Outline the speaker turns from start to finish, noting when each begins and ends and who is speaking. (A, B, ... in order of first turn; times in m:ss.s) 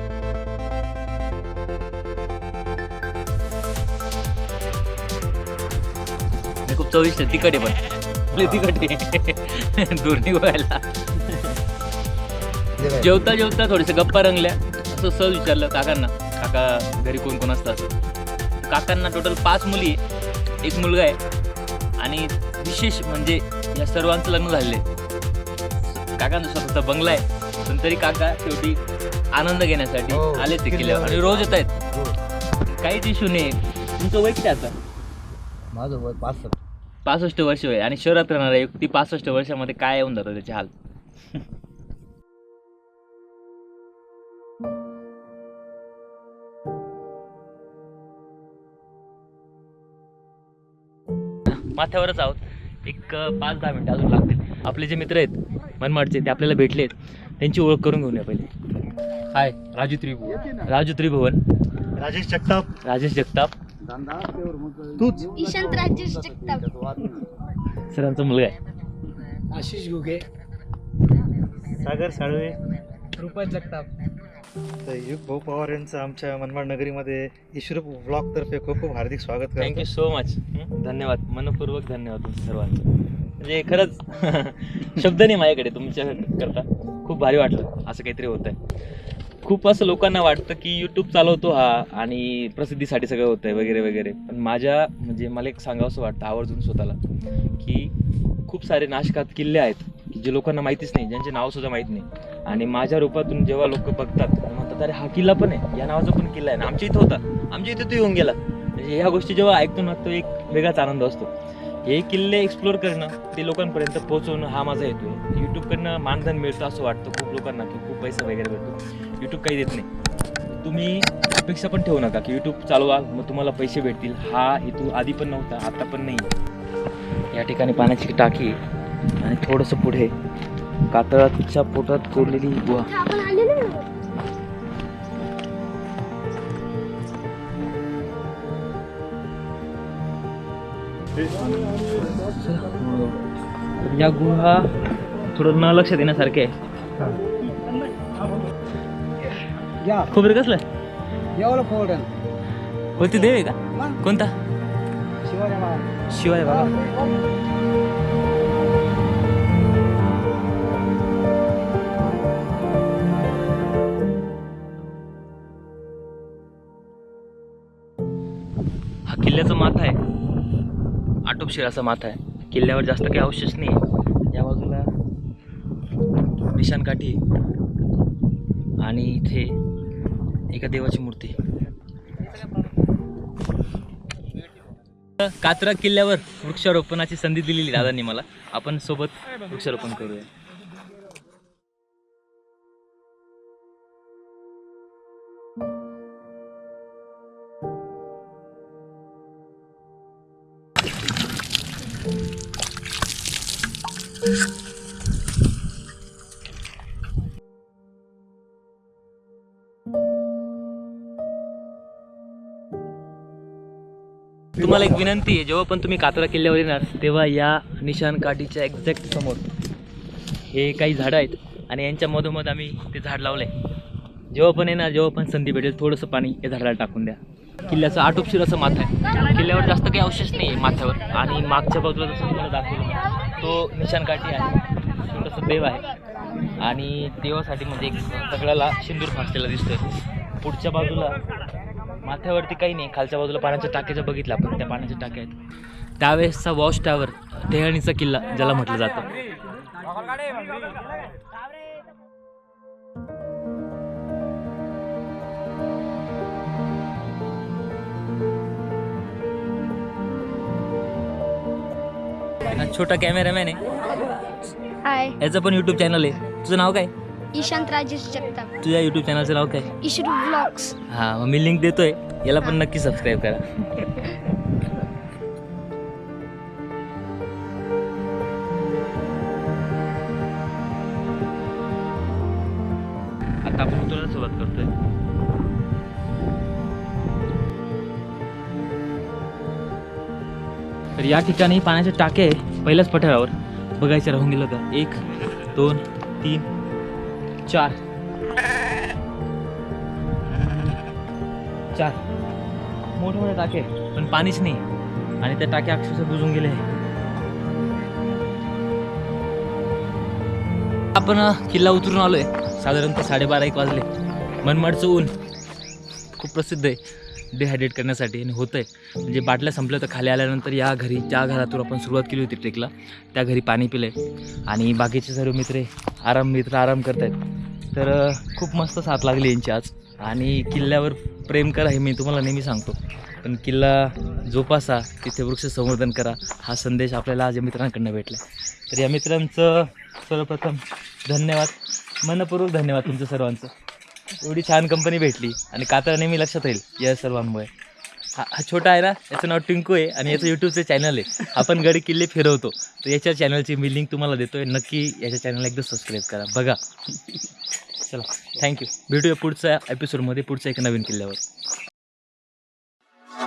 0:06.6-0:11.6 A
0:08.3-0:08.7 B
0:12.8-0:13.2 B
0:12.8-0:17.9 A
0:18.6-0:20.0 A
0:20.6-0:21.2 A
0:22.0-0:24.8 A
0:25.8-0:28.8 A
0:29.3-0:31.7 A
0:30.1-0:32.2 B
0:32.6-0:34.7 A
0:35.7-0:36.6 B
0:37.0-0:40.7 A
0:51.5-0:58.5 A
0:59.3-1:01.4 A
1:00.2-1:00.7 B
1:02.0-1:02.7 C
1:02.8-1:03.5 A
1:03.8-1:07.3 B
1:05.3-1:06.6 D
1:07.7-1:08.6 A
1:11.7-1:12.6 C
1:14.8-1:19.8 C
1:19.6-1:28.6 A
1:29.4-1:37.0 A
1:37.6-1:37.9 A
1:38.4-1:51.3 A
1:51.8-1:59.9 A
2:00.5-2:06.3 A
2:07.3-2:08.6 A
2:09.2-2:10.1 A
2:10.9-2:13.2 A
2:13.0-2:13.9 D
2:22.0-2:23.2 A
2:23.8-2:24.7 A
2:25.3-2:26.5 A
2:29.8-2:30.1 B
2:30.1-2:30.6 A
2:31.3-2:32.1 B
2:33.0-2:34.3 A
2:33.7-2:34.0 B
2:35.2-2:35.9 B
2:36.1-2:36.7 A
2:36.4-2:37.2 B
2:49.1-2:50.0 A
2:51.2-2:54.9 A
2:56.4-2:57.2 A
2:58.8-2:59.6 A
3:00.5-3:01.4 A
3:05.2-3:10.3 A
3:34.6-3:39.4 A
3:40.5-3:43.5 A
3:44.3-3:55.8 A
3:56.6-3:59.8 A
4:00.4-4:01.2 A
4:02.0-4:05.3 A
4:06.0-4:09.1 A
4:22.5-4:23.6 A
4:24.8-4:25.2 D
4:25.2-4:26.9 A
4:27.3-4:28.5 D
4:28.6-4:29.7 A
4:29.8-4:30.8 D
4:30.9-4:34.2 A
4:43.4-4:44.7 A
4:51.0-4:56.5 A
4:57.4-4:57.8 A
5:01.7-5:02.0 A
5:03.0-5:04.6 A
5:05.2-5:06.6 A
5:10.9-5:13.9 A
5:14.4-5:15.1 A
5:16.1-5:16.8 A
5:17.3-5:24.0 A
5:24.5-5:43.5 A
5:44.2-5:47.5 A
5:48.1-5:56.6 A
5:57.8-6:01.2 A